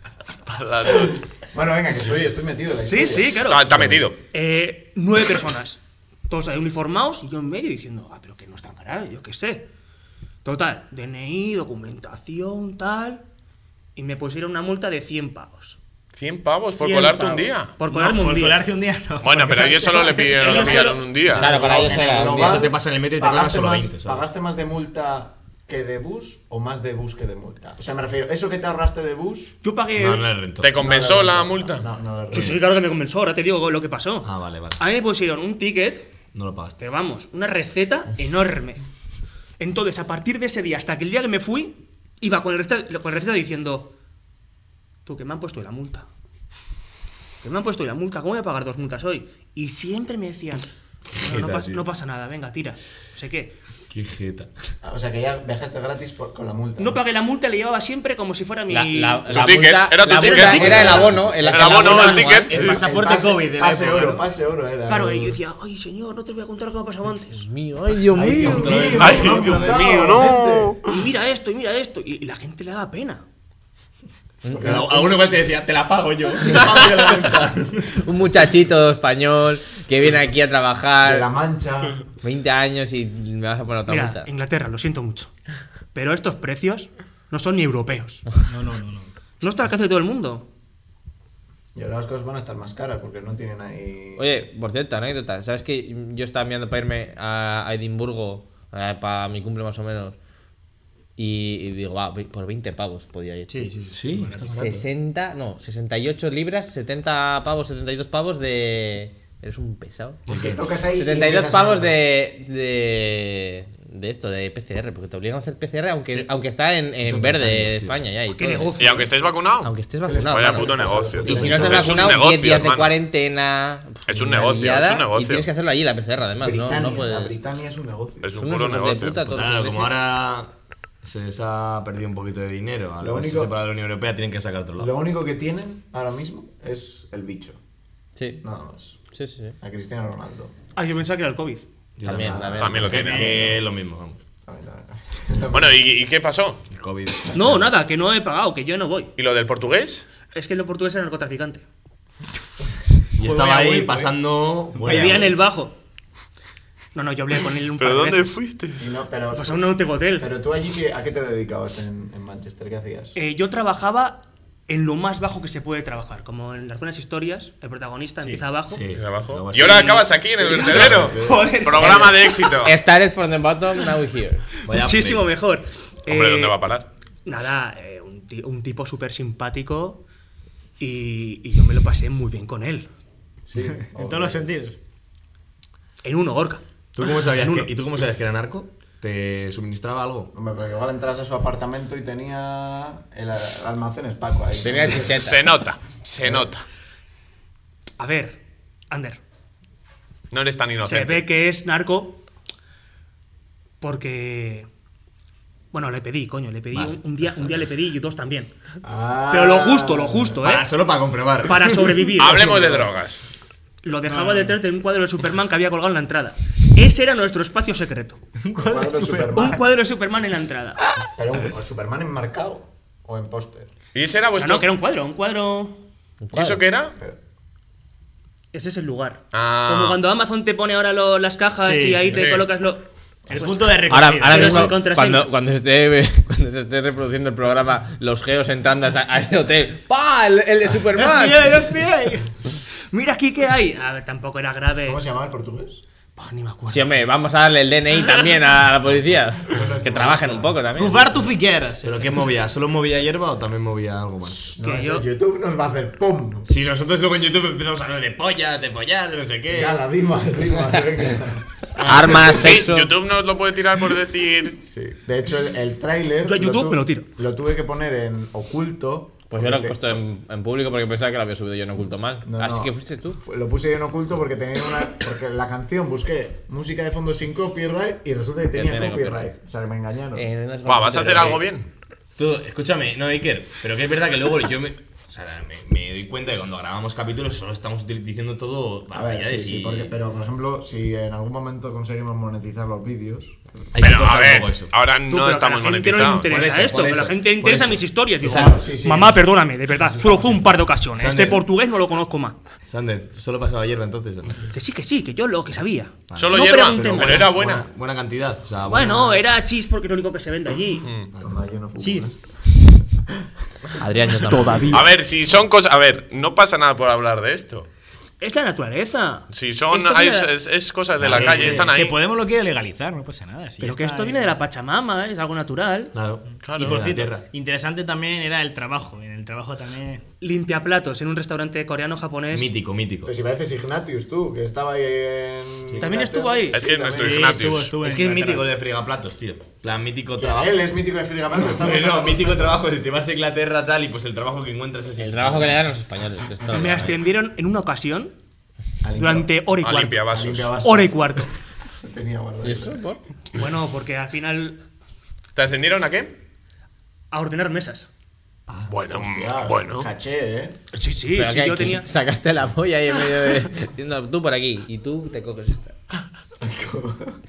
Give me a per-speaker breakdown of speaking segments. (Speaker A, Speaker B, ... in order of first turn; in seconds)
Speaker A: 0.4-1.2, 3.5-4.2, 16.1-17.8, 19.2-21.6, 30.6-31.9, 59.3-62.8, 69.0-71.0, 110.3-110.5, 118.8-119.7, 120.3-122.9, 124.1-125.5, 128.2-129.2, 142.6-143.3, 145.5-146.6, 149.2-150.1, 157.8-159.0, 168.9-172.8, 176.1-176.9, 195.1-196.7, 200.3-201.2, 212.2-213.3, 223.9-224.7, 226.3-226.9, 229.3-230.0, 232.1-232.5, 262.2-264.6, 280.7-281.7, 293.8-296.3, 306.2-307.7, 310.8-311.1, 314.7-317.7, 319.3-322.0, 326.4-327.0, 336.5-337.8, 349.6-350.5, 355.4-356.1, 358.7-359.9
Speaker B: 1.5-3.4, 21.2-29.6, 30.8-32.6, 54.8-57.0, 60.5-61.4, 62.5-65.4, 68.1-70.8, 74.5-75.3, 81.0-82.0, 91.8-94.3, 110.3-112.0, 120.0-122.0, 126.4-128.3, 133.0-133.5, 134.8-137.6, 138.4-139.0, 139.6-140.5, 142.1-143.6, 144.5-145.8, 158.8-163.2, 183.5-184.6, 190.3-195.2, 208.8-210.4, 212.4-212.9, 218.6-219.6, 221.1-223.7, 244.8-245.8, 249.5-250.6, 254.2-256.5, 259.5-261.5, 264.6-270.0, 272.2-280.3, 288.9-293.4, 298.2-299.2, 299.9-300.4, 311.2-312.3, 333.1-337.3, 340.2-342.6, 348.8-349.3, 350.1-351.2, 351.8-352.8, 358.9-360.6, 366.4-367.2
Speaker C: 2.8-9.7, 10.4-13.2, 14.0-15.8, 16.8-18.7, 20.4-21.1, 29.6-30.3, 32.3-36.1, 36.8-38.8, 39.6-43.9, 45.0-46.1, 47.4-53.6, 56.8-59.5, 60.1-61.9, 64.9-67.5, 70.9-73.2, 83.9-85.3, 85.9-88.3, 89.4-90.5, 118.3-119.1, 140.8-141.7, 147.3-149.1, 150.2-151.6, 154.9-155.8, 156.9-158.4, 159.3-160.3, 163.2-168.9, 169.7-172.5, 174.7-176.7, 177.2-180.0, 180.8-182.9, 186.0-186.6, 187.3-187.7, 198.0-199.2, 200.7-202.2, 203.8-204.7, 205.7-208.5, 209.3-210.7, 211.4-212.7, 213.8-218.2, 219.3-220.8, 224.4-225.8, 228.5-235.3, 242.9-245.0, 246.2-247.0, 254.6-255.1, 266.2-267.1, 295.1-302.4, 304.5-307.4, 308.7-310.9, 318.2-320.3, 323.6-325.9, 330.2-332.5, 335.8-336.6, 346.5-348.1, 348.9-350.1, 350.6-351.3, 353.4-354.6, 357.1-357.9, 360.7-361.9
Speaker D: 3.8-4.0, 21.8-24.2, 29.9-30.8, 34.2-34.8, 36.3-36.8, 51.2-51.8, 53.9-54.5, 68.4-69.8, 74.5-78.0, 103.9-104.8, 117.0-118.1, 121.2-121.9, 129.3-130.5, 131.0-134.9, 142.0-144.2, 146.7-147.7, 153.2-155.4, 168.7-170.0, 170.6-171.6, 174.7-175.3, 186.9-190.3, 206.7-207.7, 210.4-212.0, 251.8-254.5, 256.5-259.8, 261.8-262.1, 282.2-289.9, 293.7-294.7, 296.3-298.5, 301.0-301.4, 302.6-304.5, 306.1-309.2, 321.0-321.7, 325.9-327.3, 332.3-333.1, 337.8-340.5, 341.4-345.6
Speaker E: 17.9-20.9, 61.7-64.3, 88.4-89.1, 103.5-104.8, 143.0-143.4, 153.2-155.4, 183.8-184.8, 214.1-214.6, 218.4-219.6, 231.6-232.2, 233.3-234.8, 240.9-242.3, 250.8-252.3, 311.8-312.2, 321.2-324.4, 326.6-330.0, 336.9-338.5
Speaker F: 21.3-22.7, 58.7-62.5, 67.3-69.0, 74.5-74.8, 78.0-81.3, 82.2-84.3, 94.2-100.2, 101.2-103.7, 104.5-110.3, 110.9-118.8, 119.6-127.4, 128.4-130.0, 138.2-138.4, 139.1-139.6, 142.0-143.0, 172.6-174.5, 194.6-195.4, 226.2-226.6, 233.9-241.6, 246.7-251.0, 261.8-262.9, 269.3-273.2, 278.5-279.3, 280.2-281.4, 313.8-314.9, 345.0-347.0, 352.4-353.0, 361.1-365.8